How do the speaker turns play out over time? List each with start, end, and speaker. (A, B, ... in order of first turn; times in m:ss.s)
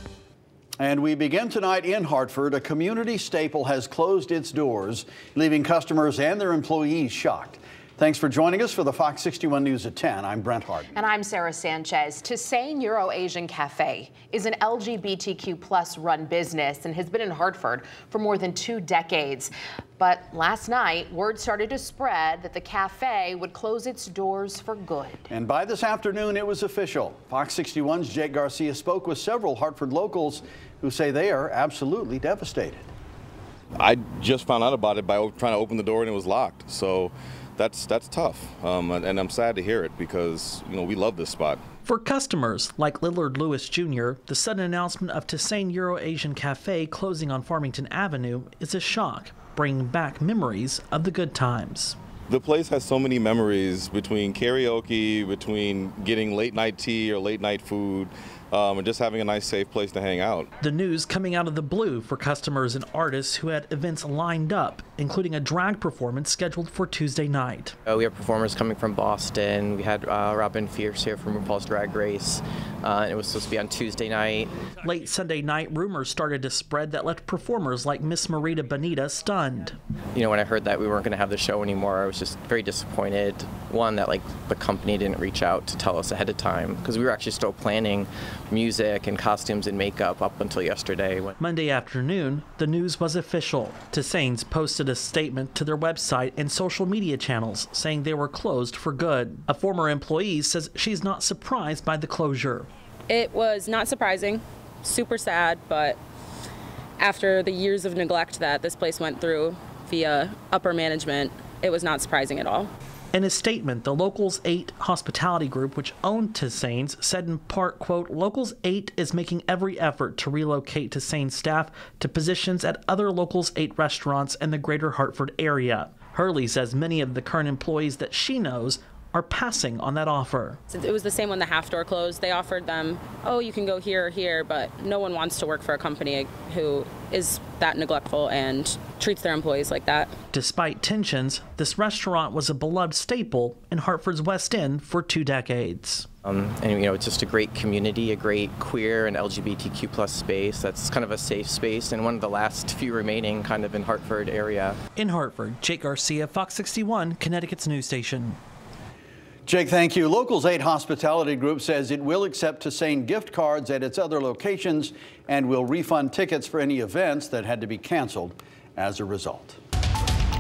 0:00.8-0:10.9 A
0:11.0-0:25.2 B
0:25.3-0:32.9 A
0:33.8-0:41.6 C
0:41.8-0:52.0 D
0:52.3-1:00.5 C
1:00.6-1:07.8 D
1:07.8-1:14.5 E
1:14.8-1:19.8 D
1:20.1-1:31.4 E
1:31.4-1:42.7 D
1:43.1-1:45.9 F
1:47.0-1:52.7 F
1:53.1-2:10.6 D
2:10.7-2:20.1 F
2:20.3-2:26.1 D
2:26.2-2:34.8 E
2:35.0-2:38.4 D
2:39.5-2:49.6 A